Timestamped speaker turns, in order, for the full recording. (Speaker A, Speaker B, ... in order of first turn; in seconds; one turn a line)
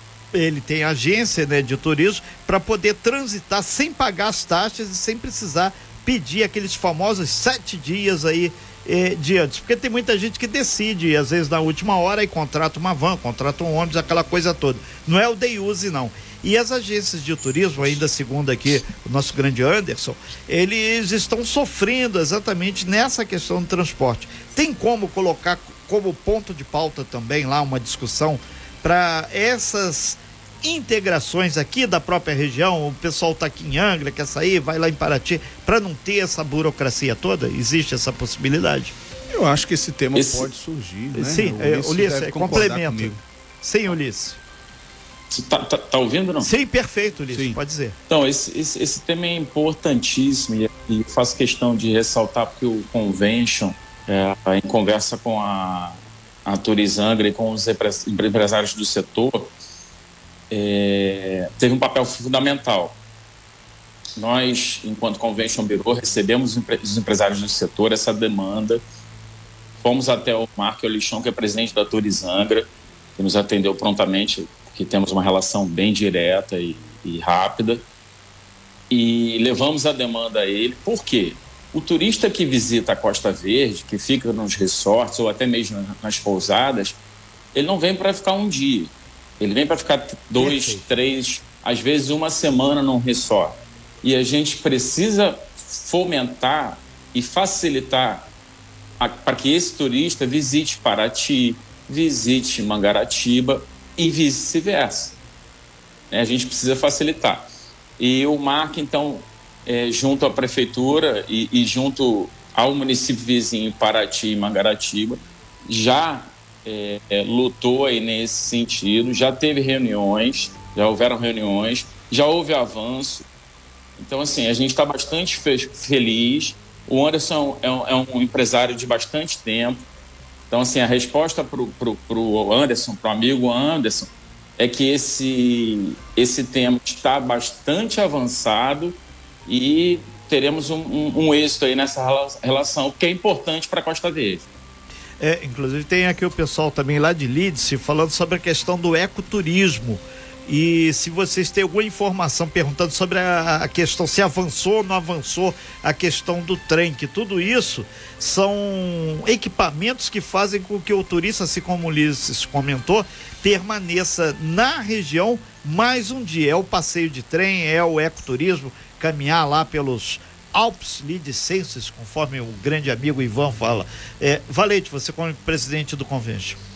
Speaker A: 0.3-38.9
Speaker B: 39.3-43.2
Speaker C: 40.1-40.5
Speaker A: 41.1-44.4
Speaker C: 45.3-46.5
Speaker A: 46.4-48.0
Speaker B: 47.3-47.6
Speaker C: 48.1-59.5
Speaker C: 60.5-63.0
Speaker C: 64.2-68.8
Speaker C: 69.8-77.8
Speaker C: 78.9-87.0
Speaker C: 87.5-98.3
Speaker A: 90.4-90.9
Speaker C: 99.0-105.2
Speaker C: 106.1-107.5
Speaker C: 108.0-123.2
Speaker C: 124.0-129.8
Speaker C: 130.5-144.4
Speaker A: 145.2-176.6